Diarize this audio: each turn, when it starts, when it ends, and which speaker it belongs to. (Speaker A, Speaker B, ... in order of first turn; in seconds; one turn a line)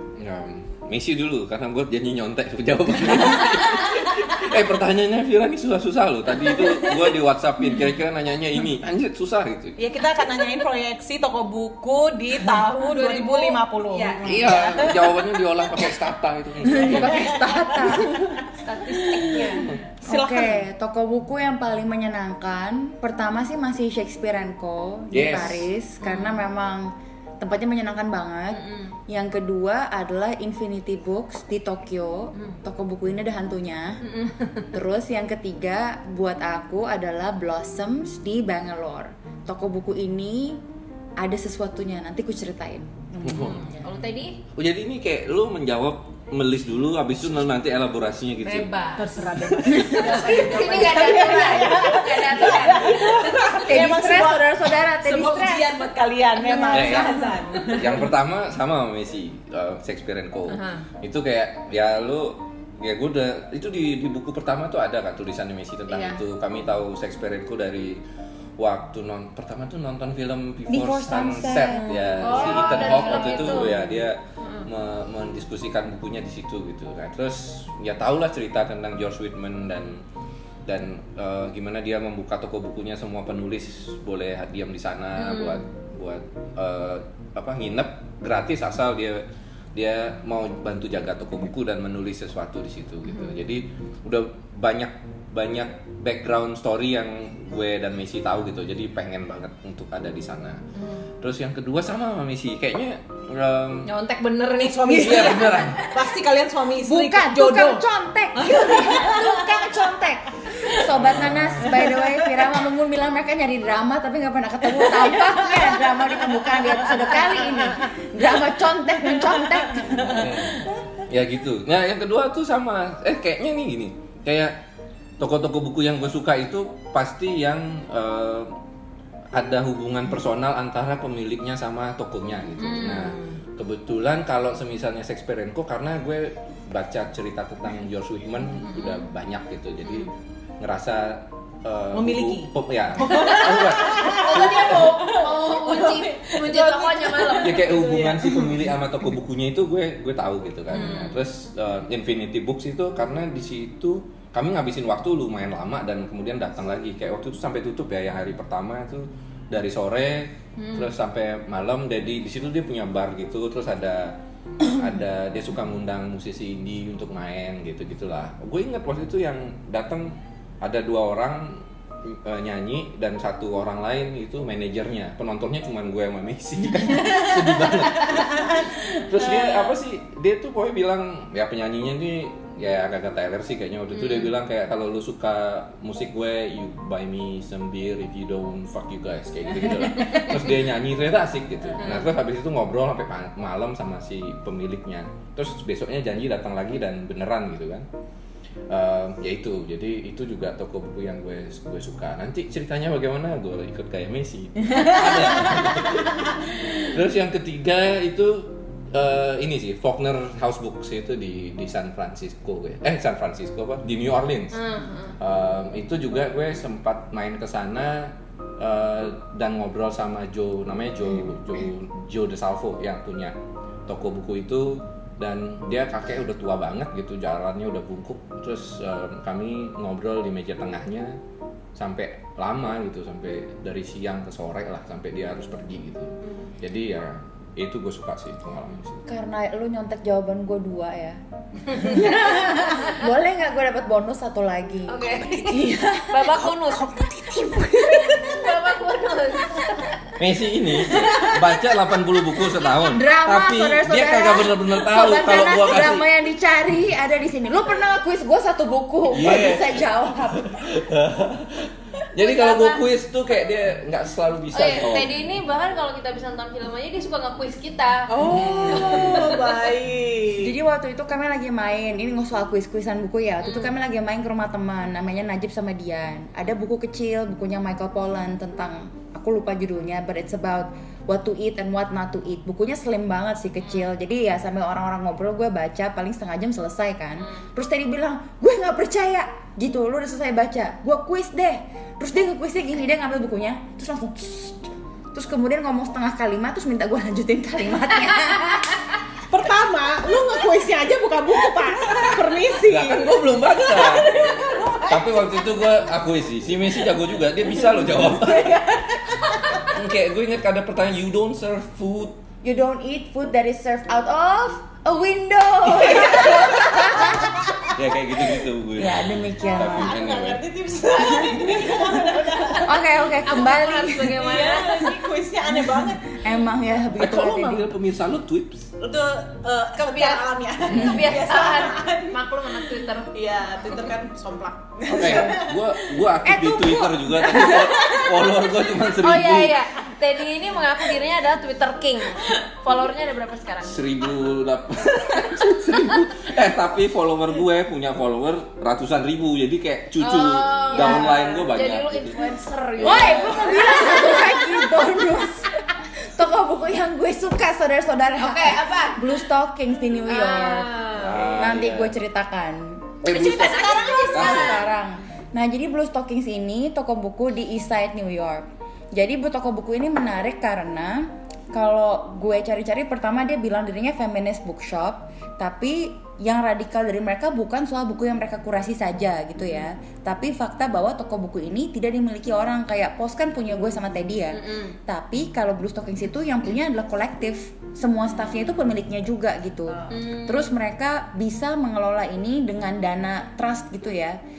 Speaker A: 0.2-9.8
Speaker B: 6.4-7.0
Speaker B: 9.8-15.2
Speaker C: 12.7-14.9
Speaker A: 14.2-17.3
Speaker D: 16.6-18.2
Speaker B: 16.8-18.4
Speaker C: 18.6-19.7
Speaker B: 18.9-20.6
Speaker A: 19.5-19.8
Speaker D: 20.0-34.0
Speaker A: 25.1-25.7
Speaker C: 26.0-26.4
Speaker C: 28.5-28.9
Speaker C: 34.0-34.7
Speaker D: 34.7-40.6
Speaker D: 41.2-43.1
Speaker B: 43.1-43.6
Speaker A: 43.2-43.6
Speaker C: 43.3-44.4
Speaker A: 44.5-48.7
Speaker C: 48.4-53.6
Speaker B: 49.0-58.1
Speaker D: 49.6-51.1
Speaker D: 53.5-55.8
Speaker D: 56.4-57.4
Speaker A: 56.7-57.1
Speaker A: 57.7-68.0
Speaker C: 60.5-60.8
Speaker C: 65.9-66.2
Speaker A: 68.6-80.0
Speaker D: 70.7-72.3
Speaker B: 72.0-73.5
Speaker C: 72.2-74.7
Speaker A: 80.6-100.6
Speaker C: 85.2-85.6
Speaker C: 100.8-101.0
Speaker A: 101.2-103.9
Speaker C: 103.8-106.1
Speaker B: 104.6-109.7
Speaker A: 104.9-105.9
Speaker D: 106.8-120.4
Speaker C: 108.5-109.0
Speaker A: 110.9-111.8
Speaker B: 111.8-112.1
Speaker B: 114.8-116.0
Speaker B: 116.5-117.9
Speaker B: 119.1-120.6
Speaker A: 119.8-124.6
Speaker A: 125.2-128.5
Speaker A: 129.3-145.0
Speaker C: 132.6-133.4
Speaker C: 138.8-139.0
Speaker C: 139.8-140.1
Speaker B: 141.9-148.7
Speaker C: 143.1-147.9
Speaker A: 147.4-197.9
Speaker C: 150.7-151.2
Speaker B: 150.7-151.2
Speaker C: 160.6-160.9
Speaker B: 177.6-179.7
Speaker C: 183.9-184.3
Speaker C: 189.9-190.4
Speaker C: 191.8-192.1
Speaker A: 198.7-214.6
Speaker C: 214.5-215.2
Speaker A: 215.2-223.3
Speaker A: 223.9-231.2
Speaker A: 231.8-239.1
Speaker C: 236.2-236.5
Speaker D: 239.1-241.2
Speaker D: 241.7-246.2
Speaker C: 244.9-246.9
Speaker B: 245.2-248.6
Speaker C: 247.9-250.0
Speaker A: 250.2-256.1
Speaker B: 250.8-251.5
Speaker D: 252.9-260.6
Speaker A: 259.1-259.9
Speaker A: 260.4-265.1
Speaker C: 262.2-262.8
Speaker C: 264.5-269.6
Speaker B: 268.1-270.5
Speaker D: 270.4-298.8
Speaker C: 273.4-273.7
Speaker C: 283.6-283.9
Speaker B: 299.3-305.5
Speaker A: 301.9-304.3
Speaker A: 304.9-308.6
Speaker B: 307.7-309.6
Speaker A: 309.6-312.2
Speaker D: 312.4-317.4
Speaker A: 315.7-316.8
Speaker B: 316.4-317.7
Speaker A: 317.7-320.4
Speaker D: 318.8-319.9
Speaker B: 319.6-322.9
Speaker D: 322.6-324.2
Speaker C: 323.2-325.0
Speaker B: 324.1-326.2
Speaker D: 325.6-327.6
Speaker A: 326.9-328.7
Speaker B: 328.8-335.7
Speaker C: 329.8-333.9
Speaker A: 334.9-339.7
Speaker D: 336.2-337.7
Speaker B: 337.4-338.1
Speaker C: 339.0-343.8
Speaker A: 343.6-352.2
Speaker C: 350.0-354.6
Speaker D: 350.7-351.1
Speaker A: 352.8-353.8
Speaker D: 352.8-360.7
Speaker C: 358.2-359.0
Speaker C: 360.1-361.2
Speaker A: 360.9-361.9
Speaker D: 361.2-394.2
Speaker C: 363.0-364.6
Speaker A: 363.1-363.4
Speaker B: 363.1-364.4
Speaker A: 364.1-364.6
Speaker C: 384.3-384.8
Speaker B: 389.7-390.0
Speaker C: 389.9-390.5